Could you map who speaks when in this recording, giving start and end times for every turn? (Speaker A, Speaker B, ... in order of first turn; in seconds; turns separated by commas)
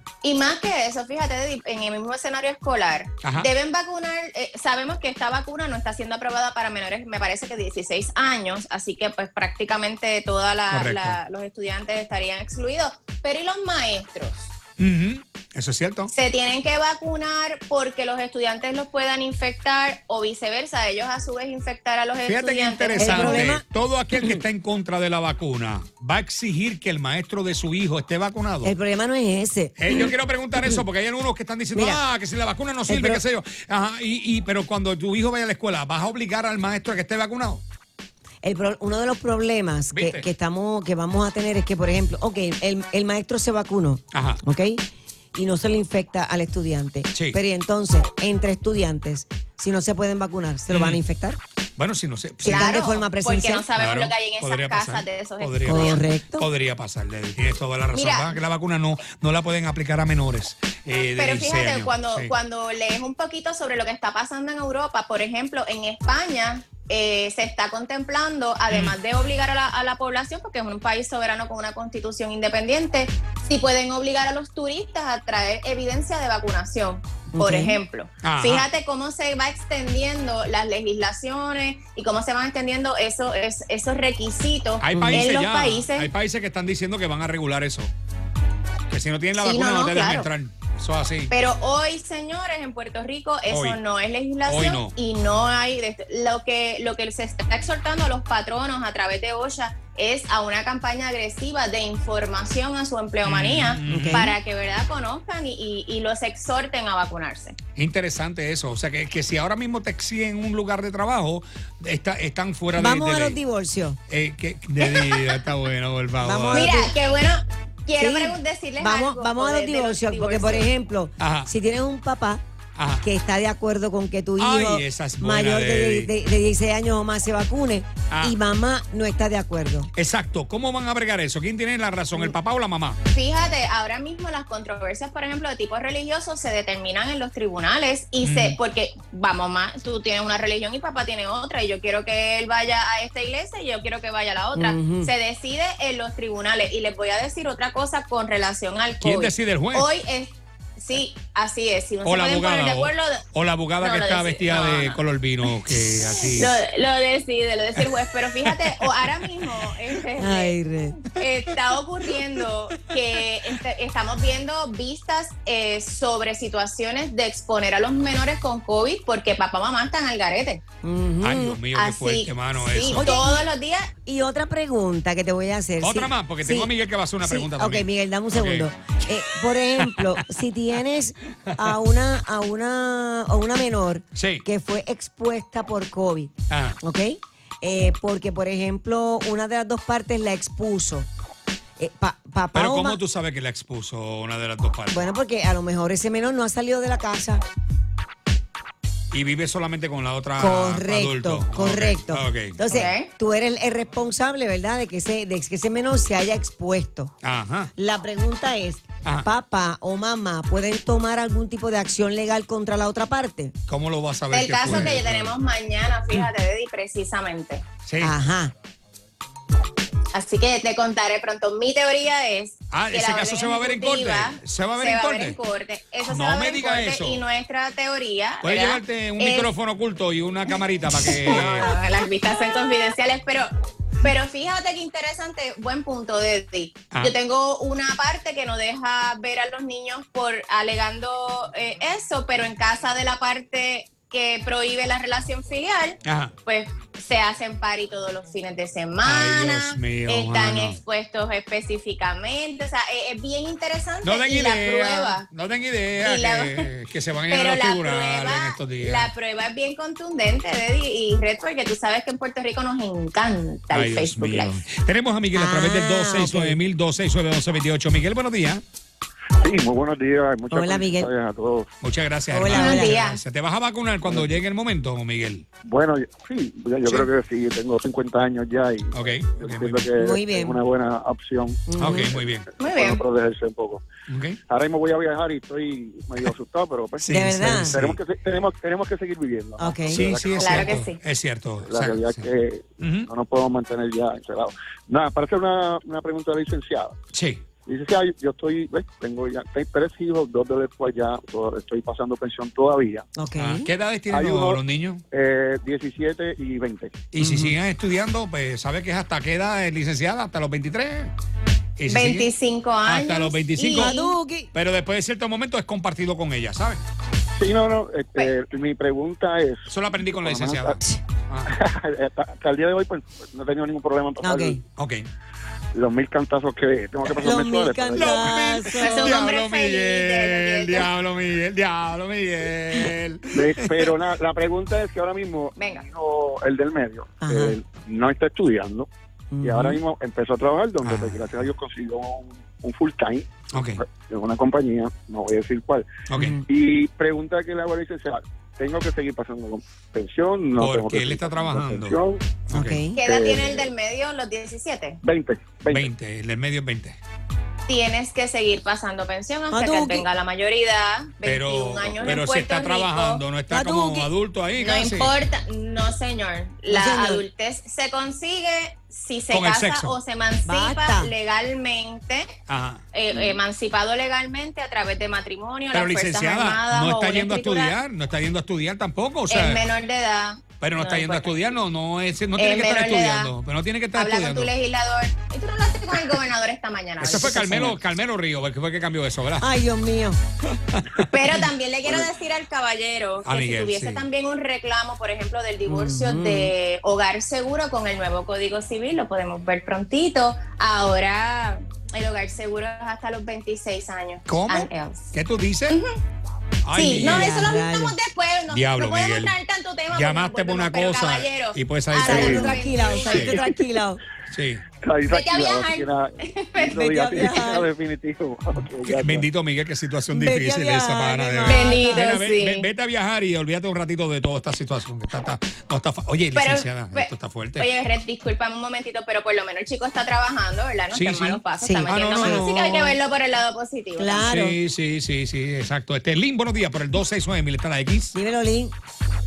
Speaker A: 0.2-14.5, Speaker B: 3.2-3.5, Speaker B: 10.7-11.2, Speaker B: 14.8-16.1, Speaker A: 16.1-23.5, Speaker B: 22.2-28.7, Speaker C: 23.0-24.4, Speaker C: 28.6-30.8, Speaker B: 29.8-37.6, Speaker C: 31.7-32.0, Speaker C: 32.9-33.2, Speaker C: 38.4-44.8, Speaker B: 39.9-40.3, Speaker B: 44.1-44.4, Speaker C: 45.3-51.4, Speaker B: 47.1-47.4, Speaker B: 50.7-51.0, Speaker B: 51.8-52.7, Speaker C: 52.4-53.6, Speaker A: 52.5-56.0, Speaker B: 53.8-62.3, Speaker C: 55.6-56.5, Speaker A: 57.9-58.4, Speaker A: 60.9-86.1, Speaker B: 68.7-69.0, Speaker C: 77.3-77.8, Speaker B: 78.2-78.7, Speaker B: 84.8-87.9, Speaker C: 84.9-85.3, Speaker B: 88.9-91.3, Speaker A: 89.3-90.3, Speaker A: 91.3-107.5, Speaker B: 93.5-93.8, Speaker B: 94.5-94.9, Speaker B: 103.2-104.3, Speaker C: 103.8-104.3, Speaker B: 107.8-113.4, Speaker C: 112.8-114.0, Speaker B: 114.1-116.7, Speaker A: 114.8-115.3, Speaker C: 116.2-116.9, Speaker A: 116.5-120.7, Speaker C: 118.0-122.4, Speaker B: 121.2-121.5, Speaker B: 122.8-123.0, Speaker C: 123.0-129.9, Speaker B: 124.4-126.1, Speaker B: 128.1-128.4, Speaker B: 129.9-133.0, Speaker A: 133.1-153.2, Speaker B: 138.2-138.6, Speaker C: 144.5-145.1, Speaker B: 149.0-149.9, Speaker B: 152.0-156.5, Speaker A: 153.8-155.0, Speaker A: 155.7-160.6, Speaker B: 158.4-159.5, Speaker C: 160.2-161.0, Speaker A: 161.1-170.6, Speaker C: 170.8-171.6, Speaker B: 171.2-173.1, Speaker A: 171.7-173.9, Speaker C: 172.9-173.4, Speaker C: 174.0-191.1, Speaker B: 175.8-178.7, Speaker B: 179.8-180.1, Speaker B: 184.2-184.4, Speaker B: 186.5-186.8, Speaker C: 191.8-193.0, Speaker B: 192.5-195.1, Speaker C: 194.9-197.4, Speaker B: 199.1-202.6, Speaker C: 200.4-207.1, Speaker A: 202.7-203.1, Speaker B: 207.2-207.7, Speaker C: 207.8-213.5, Speaker B: 209.0-209.3, Speaker B: 213.7-215.3, Speaker A: 214.3-217.6, Speaker B: 217.8-218.2, Speaker C: 218.0-218.5, Speaker A: 220.1-229.5, Speaker B: 222.7-225.4, Speaker B: 226.1-227.2, Speaker B: 228.4-231.7, Speaker A: 230.9-233.5, Speaker A: 234.0-255.2, Speaker B: 246.0-246.3, Speaker B: 249.0-250.8, Speaker B: 254.0-259.1, Speaker A: 256.0-256.7, Speaker A: 257.3-264.6, Speaker B: 263.7-268.6, Speaker C: 265.3-266.6, Speaker D: 269.4-271.7, Speaker C: 270.5-271.1, Speaker B: 271.8-275.4, Speaker C: 272.3-272.9, Speaker A: 272.5-273.2, Speaker D: 274.0-274.4, Speaker D: 275.6-283.8, Speaker B: 278.9-279.9, Speaker C: 280.0-280.6, Speaker C: 281.7-282.1, Speaker B: 281.8-282.5, Speaker A: 282.6-283.0, Speaker B: 284.1-284.4, Speaker D: 284.5-290.8, Speaker B: 287.0-288.0, Speaker C: 287.1-287.9, Speaker C: 289.6-290.0, Speaker B: 289.9-293.1, Speaker A: 290.4-291.0, Speaker D: 291.6-296.9, Speaker B: 297.1-297.4, Speaker D: 297.6-303.1, Speaker C: 303.1-303.7, Speaker B: 303.4-305.0, Speaker D: 304.1-304.6, Speaker D: 305.1-307.0, Speaker B: 307.1-311.1, Speaker C: 307.2-307.6, Speaker B: 311.8-312.3, Speaker A: 311.9-314.1, Speaker B: 312.8-313.9, Speaker C: 313.7-314.5, Speaker B: 314.5-316.8, Speaker D: 317.4-320.8, Speaker B: 319.7-321.5, Speaker D: 321.5-324.6, Speaker C: 324.2-324.6, Speaker B: 324.8-325.1, Speaker D: 325.7-328.5, Speaker C: 327.2-329.2, Speaker B: 327.9-333.8, Speaker A: 328.7-330.9, Speaker D: 333.3-338.9, Speaker A: 335.6-335.9, Speaker C: 337.2-337.6, Speaker C: 339.3-339.6, Speaker D: 339.4-352.3, Speaker B: 340.8-341.5, Speaker B: 343.5-343.8, Speaker B: 346.1-346.4, Speaker C: 346.2-346.4, Speaker B: 350.6-352.8, Speaker C: 352.5-353.0, Speaker A: 353.0-355.0, Speaker D: 353.0-353.6, Speaker D: 355.0-355.9, Speaker B: 355.7-357.0, Speaker A: 357.7-363.2, Speaker C: 359.5-360.1, Speaker B: 361.2-365.1, Speaker C: 363.5-364.1, Speaker A: 364.6-372.3, Speaker C: 366.7-367.2, Speaker B: 369.3-370.0, Speaker C: 370.4-371.1, Speaker B: 372.5-372.8, Speaker A: 372.9-377.8, Speaker B: 375.7-379.6, Speaker A: 379.3-381.5, Speaker B: 380.6-384.5, Speaker A: 382.4-383.3, Speaker A: 383.9-387.4, Speaker B: 387.0-389.5, Speaker C: 387.0-387.8, Speaker C: 389.4-390.2, Speaker B: 390.7-391.1, Speaker A: 391.1-405.1, Speaker B: 393.2-394.1, Speaker C: 395.7-396.5, Speaker B: 404.3-405.8, Speaker B: 406.6-407.3, Speaker A: 406.7-413.6, Speaker C: 407.0-407.9, Speaker B: 408.5-409.3, Speaker B: 409.9-413.4, Speaker C: 412.0-414.0, Speaker D: 412.1-412.5, Speaker B: 414.3-414.7, Speaker D: 414.8-419.2, Speaker A: 415.1-416.9, Speaker C: 416.8-417.7, Speaker B: 418.8-427.7, Speaker C: 420.1-422.4, Speaker A: 421.4-422.7, Speaker A: 426.3-434.3, Speaker B: 430.9-432.9, Speaker C: 431.6-432.5, Speaker C: 434.0-434.6, Speaker B: 434.3-438.1, Speaker C: 438.1-438.7